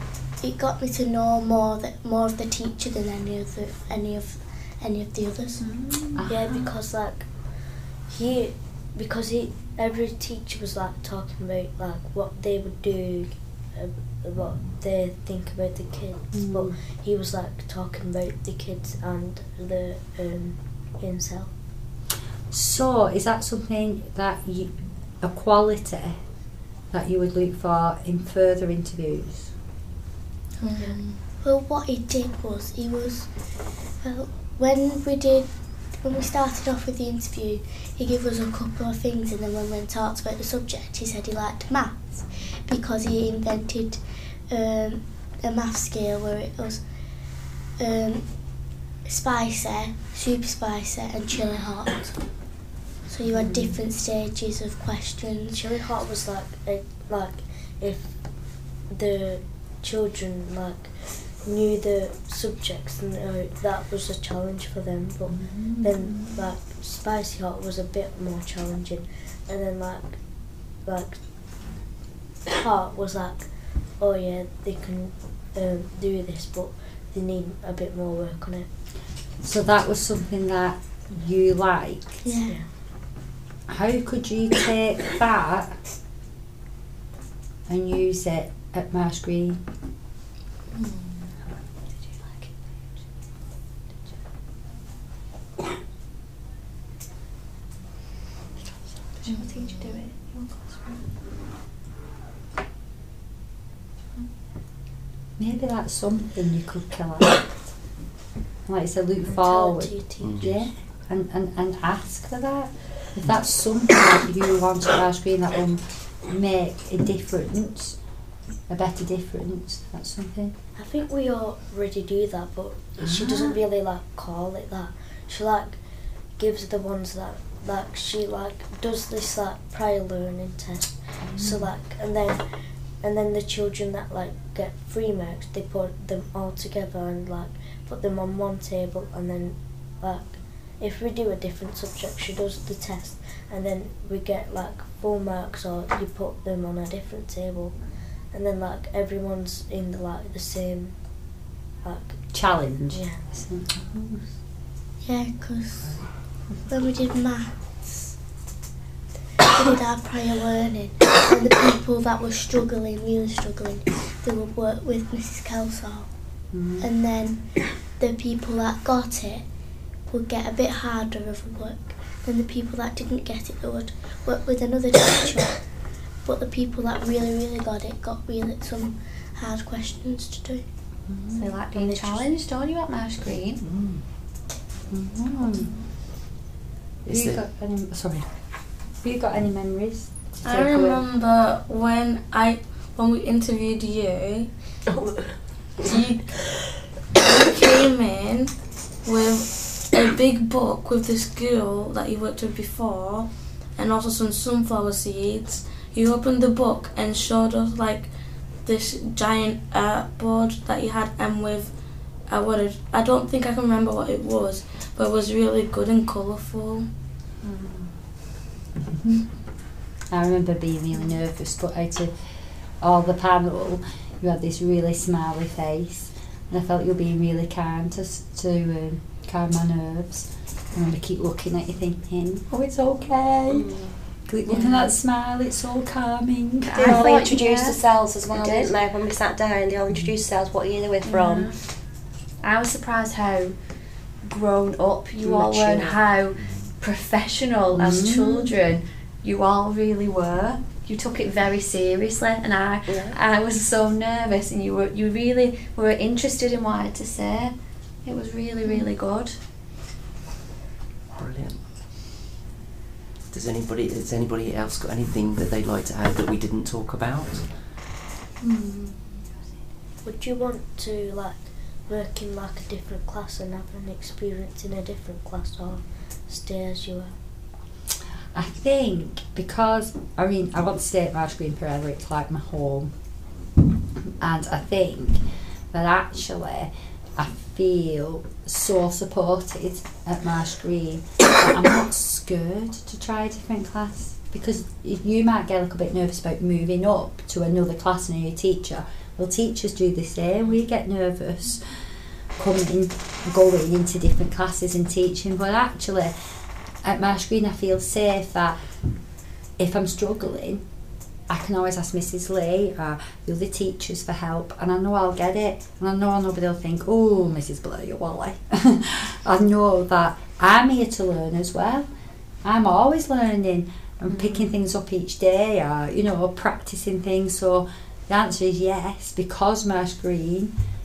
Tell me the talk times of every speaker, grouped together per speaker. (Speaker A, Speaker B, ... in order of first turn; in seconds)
Speaker A: 0.4-5.7, 31.4-33.3, 34.0-46.8, 47.8-55.6, 82.2-82.5, 155.0-156.1, 156.7-158.1, 159.5-169.4, 170.1-180.6
Speaker B: 5.6-6.7, 16.3-16.8, 22.5-26.2, 26.9-29.5, 53.3-53.8, 65.3-66.2, 79.4-82.2, 83.7-85.8, 87.7-89.6, 105.4-107.7, 108.6-118.0, 118.7-120.5, 123.0-123.5, 131.2-131.7, 152.3-154.3, 166.5-166.9, 181.1-181.5, 184.9-185.7, 187.0-188.3, 189.0-191.0, 217.4-217.9, 220.1-222.1, 222.8-233.6, 234.2-237.0, 247.7-248.5, 278.3-282.9, 284.2-285.2, 285.7-306.1, 306.8-308.6, 309.6-310.6, 311.3-321.9, 322.4-330.5
Speaker C: 6.3-21.5, 55.5-71.2, 72.5-78.7, 109.2-110.4, 120.8-125.8, 126.3-153.2, 270.0-277.1
Speaker D: 30.6-31.2, 90.8-91.1, 99.2-99.5, 190.4-194.5, 195.8-196.6, 197.2-198.5, 199.0-208.1, 208.6-211.7, 212.3-216.9
Speaker E: 99.8-100.9, 181.3-183.6, 232.6-232.8, 234.5-234.8, 236.7-238.8, 241.0-241.6, 242.4-243.5, 244.2-259.4, 324.1-324.5
Speaker F: 233.5-234.7, 236.8-241.4, 245.3-245.9, 252.9-253.2
Speaker G: 261.2-261.6, 263.3-267.6